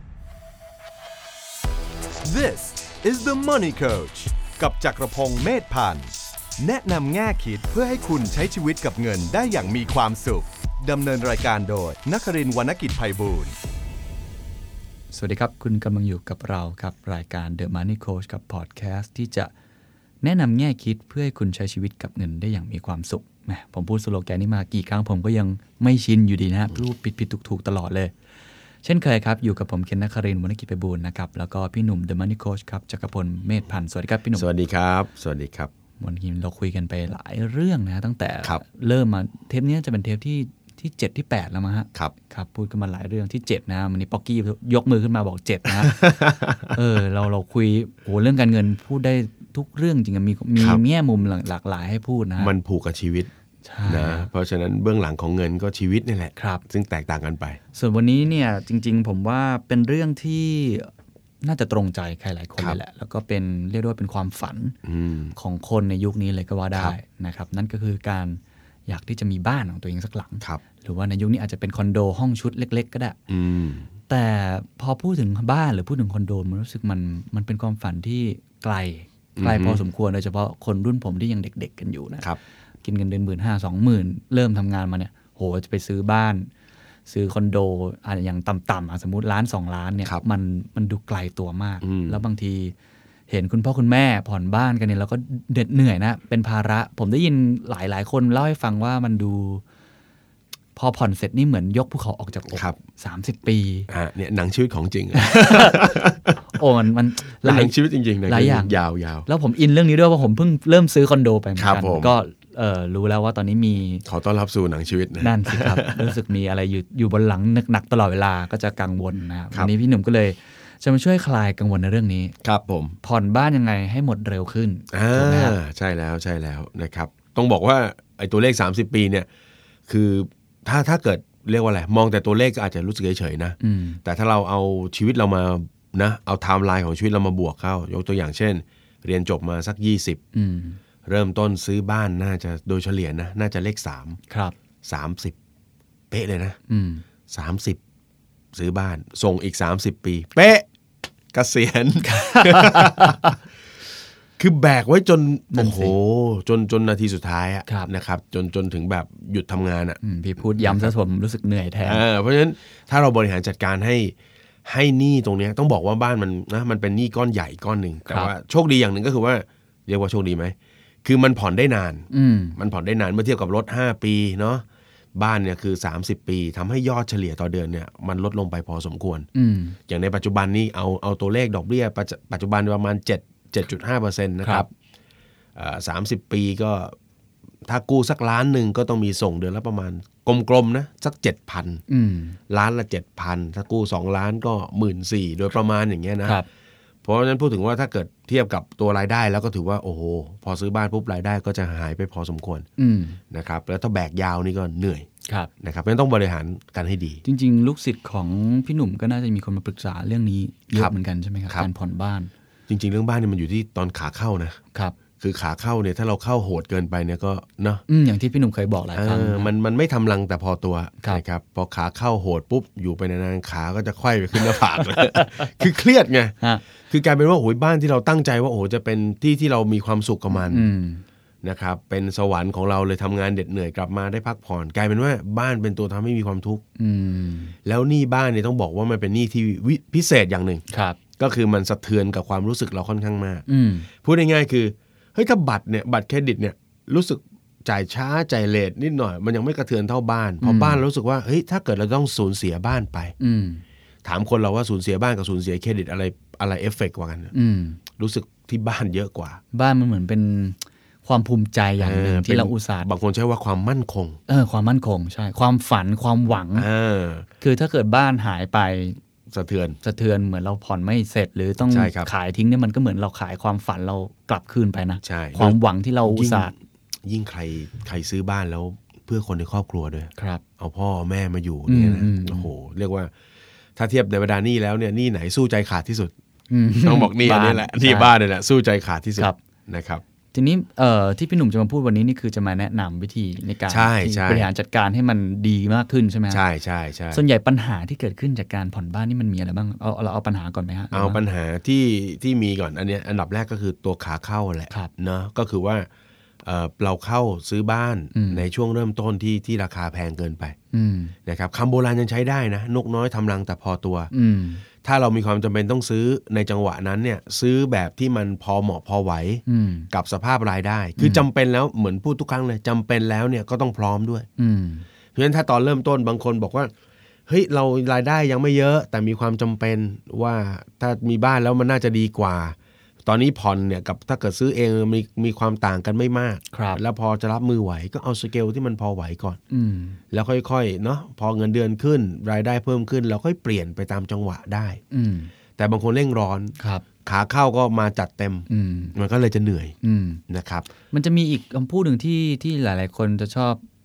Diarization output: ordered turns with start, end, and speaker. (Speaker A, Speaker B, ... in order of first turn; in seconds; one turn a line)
Speaker A: 2.2-13.6
Speaker B: 15.1-19.5
Speaker B: 20.2-28.1
Speaker B: 28.8-34.5
Speaker C: 34.4-35.7
Speaker B: 36.0-46.0
Speaker C: 45.8-46.8
Speaker B: 46.7-52.5
Speaker C: 50.6-50.8
Speaker C: 52.4-53.3
Speaker B: 53.6-54.3
Speaker C: 53.9-57.6
Speaker B: 56.4-56.6
Speaker B: 57.7-60.9
Speaker B: 61.4-64.8
Speaker C: 64.8-65.3
Speaker B: 65.3-73.2
Speaker C: 73.3-73.9
Speaker B: 74.1-82.3
Speaker C: 79.4-79.8
Speaker B: 82.8-86.5
Speaker B: 87.1-92.7
Speaker C: 91.8-92.2
Speaker B: 93.3-99.6
Speaker B: 100.8-103.9
Speaker C: 102.5-102.8
Speaker C: 103.9-106.4
Speaker B: 105.1-105.9
Speaker B: 106.5-107.7
Speaker C: 107.4-109.2
Speaker B: 108.3-114.0
Speaker C: 111.6-112.1
Speaker C: 114.0-116.1
Speaker B: 115.2-122.3
Speaker C: 122.4-123.0
Speaker B: 123.0-125.6
Speaker C: 124.9-129.3
Speaker C: 129.9-140.2
Speaker B: 133.6-134.0
Speaker B: 140.3-140.8
Speaker C: 141.1-144.2
Speaker B: 144.3-144.5
Speaker C: 144.8-145.3
Speaker C: 146.1-146.6
Speaker B: 146.7-147.0
Speaker C: 147.3-147.8
Speaker C: 148.5-150.7
Speaker C: 151.3-153.3
Speaker B: 152.0-153.3
Speaker C: 154.4-160.0
Speaker B: 155.5-155.9
Speaker B: 160.0-162.0
Speaker C: 160.6-160.9
Speaker C: 161.8-174.6
Speaker B: 172.1-172.6
Speaker C: 175.2-179.3
Speaker B: 179.3-179.8
Speaker C: 179.9-184.7
Speaker C: 185.6-186.9
Speaker C: 187.7-191.8
Speaker B: 191.9-192.4
Speaker C: 192.5-196.4
Speaker C: 197.0-202.7
Speaker B: 202.8-203.2
Speaker C: 203.3-205.1
Speaker C: 205.6-207.2
Speaker B: 207.2-212.3
Speaker C: 212.7-214.6
Speaker C: 215.2-217.8
Speaker B: 217.9-219.5
Speaker C: 218.9-230.7
Speaker B: 224.4-225.6
Speaker B: 230.5-231.0
Speaker C: 231.4-236.6
Speaker B: 236.8-237.6
Speaker C: 237.7-240.6
Speaker B: 240.7-241.0
Speaker C: 241.2-243.4
Speaker B: 243.5-243.9
Speaker C: 244.0-253.1
Speaker B: 250.4-250.8
Speaker B: 253.2-253.6
Speaker C: 254.1-257.3
Speaker B: 257.3-257.8
Speaker C: 258.0-259.4
Speaker B: 259.5-262.9
Speaker C: 261.8-264.2
Speaker B: 264.3-266.7
Speaker C: 266.6-267.3
Speaker B: 267.4-269.0
Speaker C: 269.3-269.8
Speaker B: 269.8-276.5
Speaker C: 271.7-272.1
Speaker C: 275.0-276.5
Speaker C: 277.0-283.1
Speaker B: 280.2-280.4
Speaker B: 281.7-282.5
Speaker C: 283.8-286.1
Speaker B: 286.5-288.1
Speaker C: 286.8-290.0
Speaker B: 290.3-296.4
Speaker C: 293.7-294.5
Speaker C: 296.3-297.2
Speaker B: 297.1-301.2
Speaker C: 300.9-305.9
Speaker C: 306.4-310.6
Speaker B: 308.1-308.4
Speaker B: 310.7-311.1
Speaker C: 311.3-314.1
Speaker B: 314.1-314.6
Speaker C: 314.8-324.3
Speaker B: 319.5-319.9
Speaker B: 321.0-321.2
Speaker B: 324.4-324.9
Speaker C: 325.1-326.7
Speaker C: 327.3-339.4
Speaker B: 336.5-336.8
Speaker B: 339.5-340.0
Speaker C: 340.1-344.8
Speaker B: 344.9-345.3
Speaker C: 345.6-349.8
Speaker B: 346.6-346.8
Speaker B: 348.5-348.9
Speaker B: 349.8-350.2
Speaker C: 350.3-350.7
Speaker B: 350.9-353.6